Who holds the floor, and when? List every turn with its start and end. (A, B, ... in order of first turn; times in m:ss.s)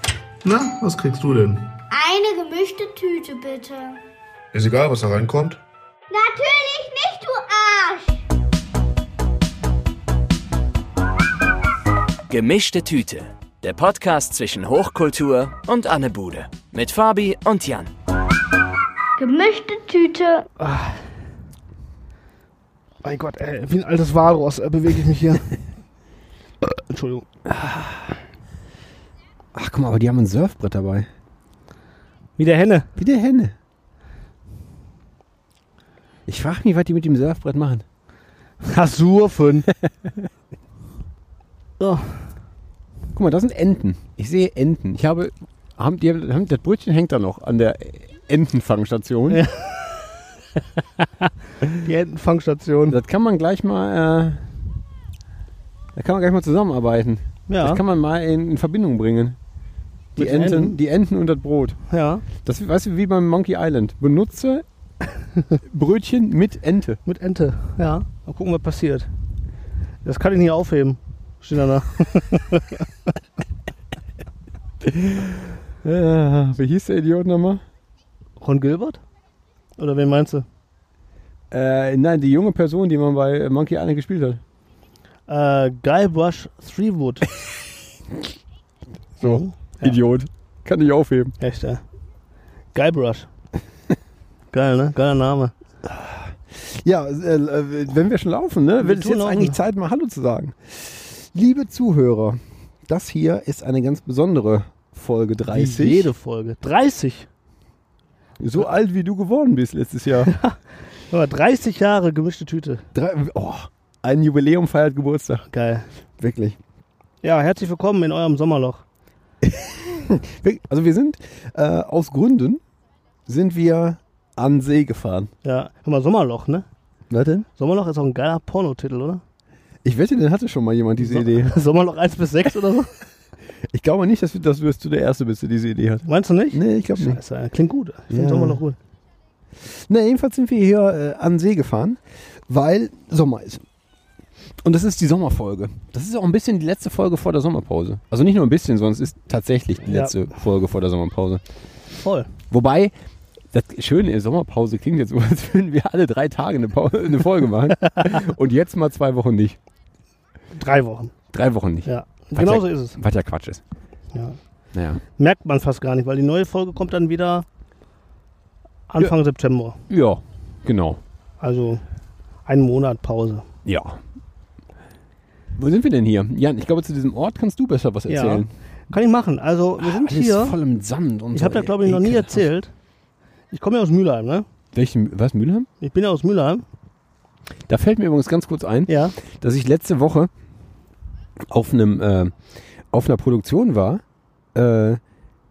0:00.4-0:01.7 A
0:01.9-0:04.0 B
0:04.5-0:05.6 A
0:06.1-0:08.2 B
0:12.3-0:17.9 C
0:19.2-0:20.5 B
0:20.6-0:21.0 D
0:23.0-0:25.5 D
0:26.9-0:27.3 D
0:27.5-0:28.1 E
0:29.5-0:31.1 E
0:32.4-0:32.9 D
0:33.0-0:33.6 E
0:36.3-0:37.8 E
0:38.6-0:39.7 D
0:39.8-0:40.3 E
0:41.8-0:42.3 D
0:43.1-0:49.4 E
0:49.3-0:49.9 D
0:51.0-0:53.0 D
0:52.9-0:54.5 E
0:55.9-0:59.4 E
0:57.5-0:57.8 D
1:00.2-1:00.8 D
1:00.2-1:01.8 E
1:01.9-1:02.2 D
1:02.4-1:04.6 E
1:05.6-1:07.0 E
1:07.0-1:09.1 D
1:10.0-1:12.8 D
1:14.8-1:17.6 E
1:18.4-1:19.0 D
1:19.8-1:20.4 D
1:21.5-1:24.4 E
1:25.3-1:27.3 D
1:29.2-1:31.4 E
1:29.2-1:30.0 D
1:31.4-1:31.8 D
1:32.7-1:33.3 D
1:34.5-1:35.5 D
1:35.8-1:46.1 E
1:38.8-1:39.6 D
1:45.5-1:47.3 D
1:48.4-1:50.3 E
1:50.2-1:50.6 D
1:51.1-1:52.9 D
1:52.9-1:55.5 E
1:55.5-1:55.8 D
1:56.2-1:56.6 E
1:57.2-1:58.8 D
1:59.4-2:02.6 E
2:03.3-2:05.3 E
2:05.4-2:06.7 D
2:07.1-2:07.5 E
2:07.6-2:09.2 D
2:09.8-2:11.6 E
2:11.0-2:12.9 D
2:13.6-2:17.2 E
2:16.0-2:18.8 D
2:18.1-2:18.6 E
2:19.6-2:23.6 E
2:24.6-2:31.4 E
2:31.9-2:32.3 D
2:32.5-2:32.9 E
2:33.5-2:39.6 E
2:40.5-2:41.1 D
2:41.3-2:43.6 E
2:41.8-2:43.0 D
2:44.7-2:45.0 E
2:45.2-2:47.4 D
2:48.9-2:49.8 D
2:49.9-2:51.0 E
2:51.4-2:51.8 D
2:52.4-2:53.4 D
2:53.6-2:54.0 E
2:55.6-2:58.5 E
2:58.1-3:00.6 D
2:59.8-3:02.4 E
3:01.3-3:02.7 D
3:03.5-3:04.4 D
3:04.7-3:05.7 E
3:05.8-3:06.6 D
3:07.7-3:10.3 E
3:08.9-3:09.1 D
3:11.5-3:12.3 E
3:12.9-3:14.0 E
3:14.5-3:15.0 E